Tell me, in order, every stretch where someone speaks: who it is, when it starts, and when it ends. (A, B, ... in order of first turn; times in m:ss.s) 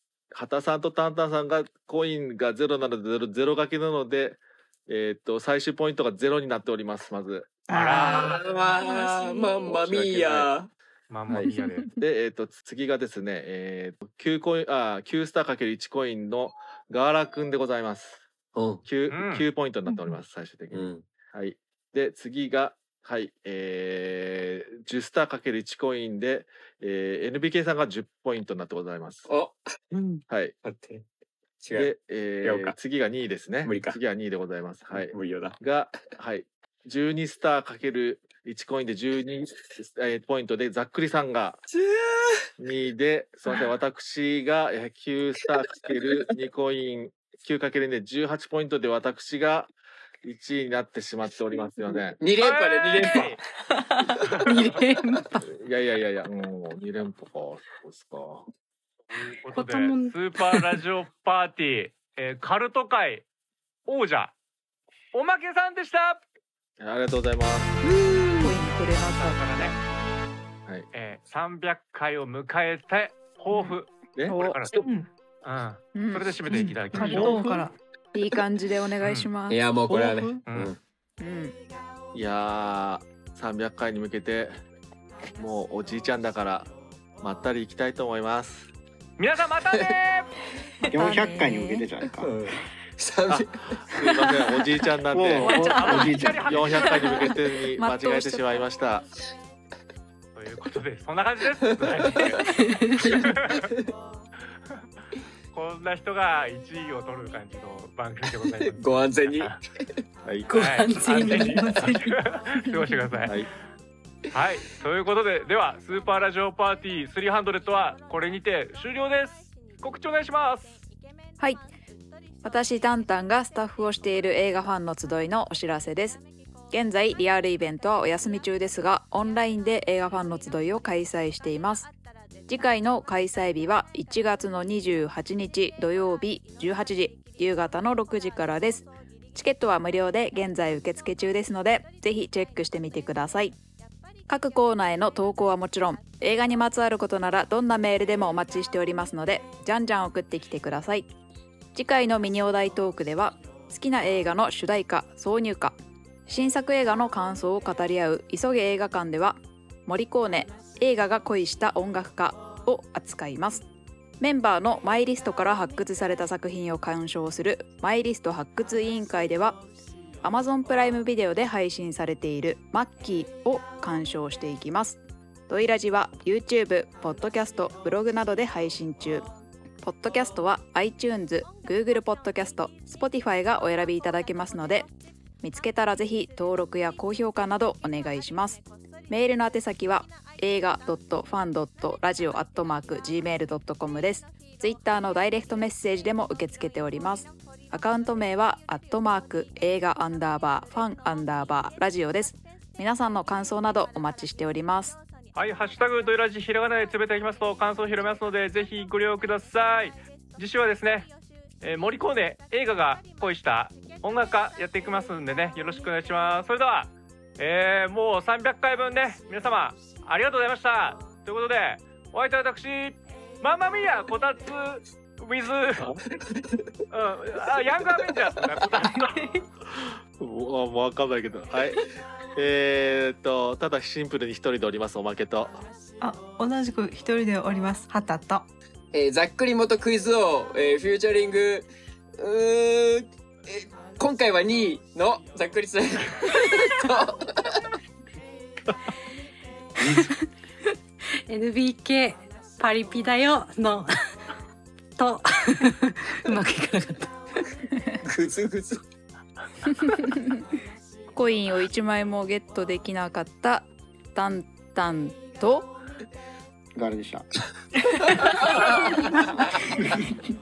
0:00.3-0:07.6 A
0:07.7-0:09.4 B
0:07.7-0:08.4 C
0:08.1-0:10.7 D
0:09.5-0:10.5 A
0:11.1-0:11.9 C
0:11.3-0:18.2 A
0:18.5-0:18.8 D
0:18.8-0:29.3 A
0:19.1-0:19.5 C
0:20.7-0:21.1 D
0:29.3-0:29.6 D
0:29.9-0:30.2 E
0:30.3-0:30.6 A
0:30.6-0:31.0 D
0:31.6-0:31.9 D
0:31.7-0:41.6 A
0:32.4-0:32.8 D
0:33.6-0:34.0 D
0:34.9-0:35.6 D
0:41.7-0:42.5 D
0:42.6-0:49.7 A
0:50.2-0:52.2 A
0:52.2-0:53.4 D
0:52.4-0:53.4 C
0:54.4-0:55.4 E
0:55.4-0:58.5 A
0:59.4-1:03.2 C
0:59.5-1:00.6 E
1:03.9-1:04.3 C
1:05.1-1:06.2 C
1:06.8-1:07.8 A
1:08.0-1:08.5 B
1:08.4-1:09.8 F
1:08.6-1:09.8 C
1:10.9-1:14.8 C
1:14.3-1:14.6 F
1:14.8-1:15.1 B
1:15.4-1:17.4 C
1:16.0-1:17.6 F
1:16.5-1:17.8 B
1:18.1-1:19.6 F
1:19.0-1:19.3 C
1:19.5-1:20.8 D
1:19.9-1:20.4 A
1:21.2-1:21.6 F
1:22.1-1:24.6 A
1:25.4-1:26.7 A
1:27.2-1:28.7 A
1:29.2-1:30.3 C
1:30.9-1:32.3 G
1:30.9-1:31.9 F
1:31.0-1:31.5 B
1:32.2-1:33.7 D
1:33.3-1:35.8 A
1:35.1-1:36.7 G
1:35.4-1:36.3 F
1:35.6-1:37.3 C
1:36.4-1:39.1 A
1:36.9-1:38.6 F
1:40.4-1:42.5 C
1:42.4-1:43.1 E
1:43.0-1:43.9 D
1:43.1-1:43.7 C
1:45.5-1:49.6 C
1:48.7-1:49.6 D
1:50.2-1:50.5 A
1:50.5-1:52.1 E
1:50.5-1:53.3 C
1:51.2-1:52.1 B
1:54.3-2:00.8 C
2:02.4-2:11.9 F
2:12.5-2:23.6 F
2:24.3-2:31.1 F
2:31.7-2:43.7 F
2:44.2-2:49.6 F
2:50.2-2:59.3 F
2:59.8-3:04.9 F
3:05.4-3:25.0 F
3:25.3-3:31.1 C
3:31.6-3:46.0 C
3:46.9-3:49.2 C
3:48.8-3:49.5 B
3:49.7-3:55.6 A
3:56.0-3:58.5 B
3:58.9-4:07.6 D
4:09.8-4:10.2 E
4:11.3-4:13.9 E
4:15.0-4:17.1 E
4:18.1-4:18.8 D
4:19.7-4:20.4 F
4:21.1-4:25.7 F
4:26.8-4:27.3 G
4:28.2-4:29.1 D